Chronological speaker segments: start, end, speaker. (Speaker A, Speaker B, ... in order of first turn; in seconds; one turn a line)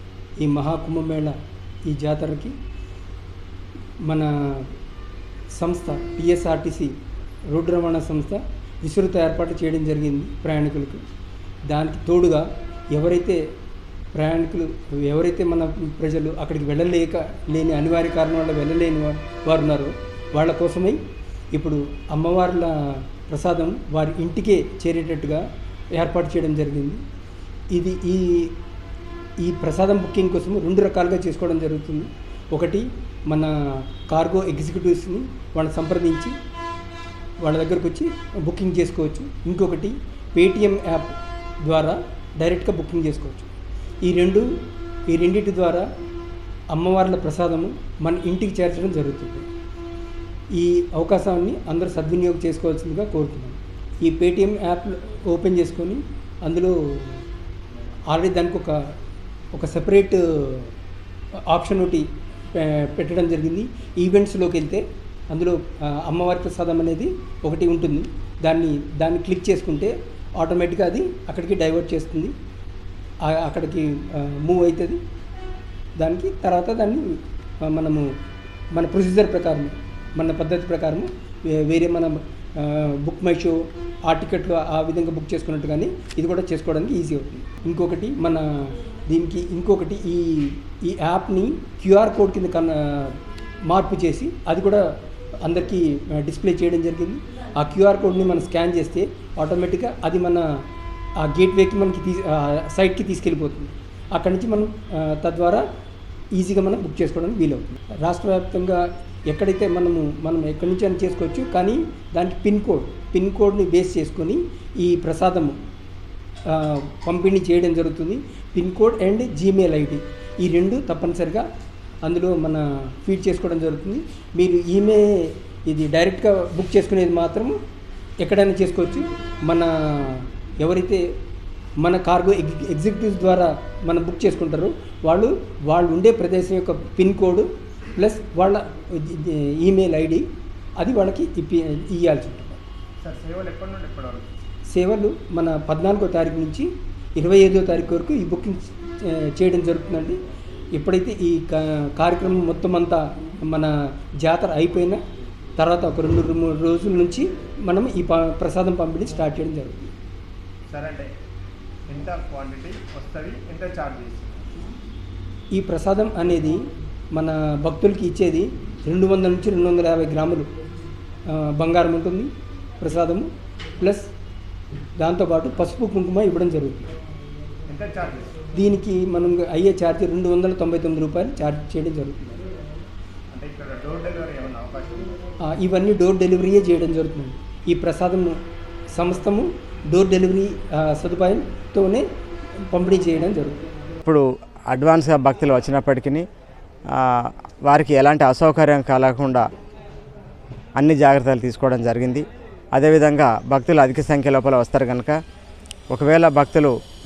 Speaker A: 0.4-1.4
Speaker A: 1.9-2.5
Speaker A: 4.0-4.7
Speaker A: 5.6-7.0
Speaker A: 7.5-11.0
Speaker A: 11.7-13.4
Speaker A: 14.2-21.0
Speaker A: 21.5-27.0
Speaker A: 27.7-28.6
Speaker A: 29.4-36.4
Speaker A: 37.4-43.5
Speaker A: 44.0-44.5
Speaker A: 45.1-45.9
Speaker A: 46.7-49.5
Speaker A: 50.5-57.2
Speaker A: 58.1-58.8
Speaker A: 59.5-60.7
Speaker A: 61.5-72.3
Speaker A: 73.2-75.0
Speaker A: 76.0-78.1
Speaker A: 78.7-94.9
Speaker A: 95.4-100.5
Speaker A: 101.2-105.7
Speaker A: 106.3-115.6
Speaker A: 116.5-121.5
Speaker A: 122.0-127.5
Speaker A: 128.2-131.1
Speaker A: 131.8-140.3
Speaker A: 140.8-142.6
Speaker B: 143.0-144.3
Speaker A: 144.7-150.2
Speaker A: 150.7-155.0
Speaker A: 155.6-159.9
Speaker B: 160.7-161.1
Speaker B: 161.9-164.5
Speaker A: 165.5-170.5
Speaker A: 171.3-174.1
Speaker A: 175.0-176.9
Speaker B: 177.7-178.4
Speaker A: 178.5-182.4
Speaker B: 183.3-185.2
Speaker A: 185.5-188.4
Speaker A: 188.9-192.1
Speaker A: 192.6-193.6
Speaker C: 194.1-196.3
Speaker C: 196.9-199.4
Speaker C: 200.8-205.2
Speaker C: 205.9-206.7